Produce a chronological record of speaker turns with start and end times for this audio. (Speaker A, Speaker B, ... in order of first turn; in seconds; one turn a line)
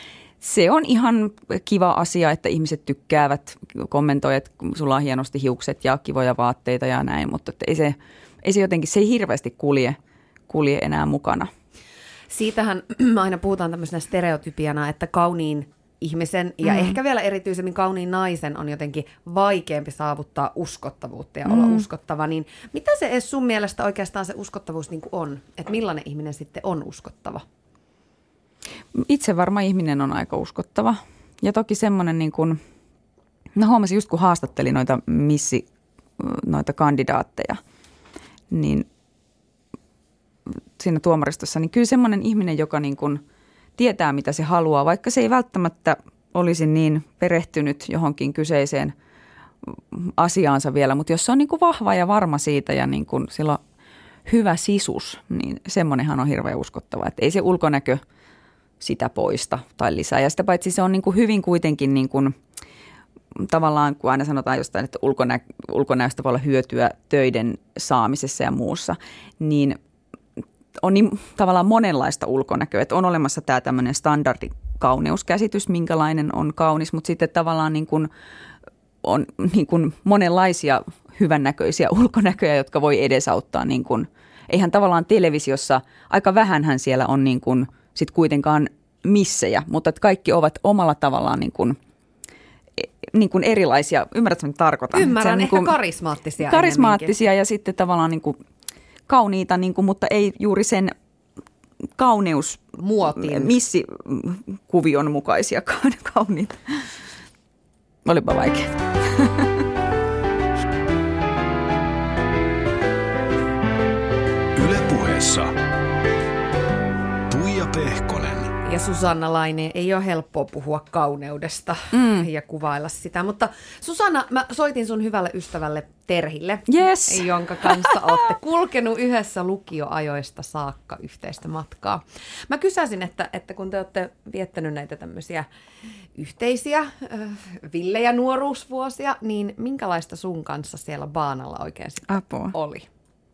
Speaker A: 0.4-10.0
Speaker A: 10.5-11.5
Speaker B: 12.3-27.4
Speaker A: 16.6-17.0
Speaker A: 21.4-21.8
Speaker A: 28.9-32.6
Speaker A: 33.5-35.6
Speaker A: 36.2-37.6
Speaker A: 38.5-38.9
Speaker A: 40.5-43.2
Speaker A: 43.8-48.9
Speaker A: 49.6-53.6
Speaker A: 54.2-58.0
Speaker A: 58.8-62.4
Speaker A: 63.4-69.8
Speaker A: 70.8-78.1
Speaker A: 79.0-91.8
Speaker A: 92.8-95.7
Speaker B: 94.9-97.1
Speaker A: 96.4-98.4
Speaker A: 99.1-100.9
Speaker A: 102.0-107.0
Speaker B: 102.8-103.5
Speaker A: 108.0-109.6
Speaker C: 114.5-115.5
Speaker C: 117.3-118.5
Speaker B: 118.6-135.4
Speaker A: 121.9-122.3
Speaker A: 126.7-128.0
Speaker B: 136.1-142.9
Speaker A: 142.1-142.5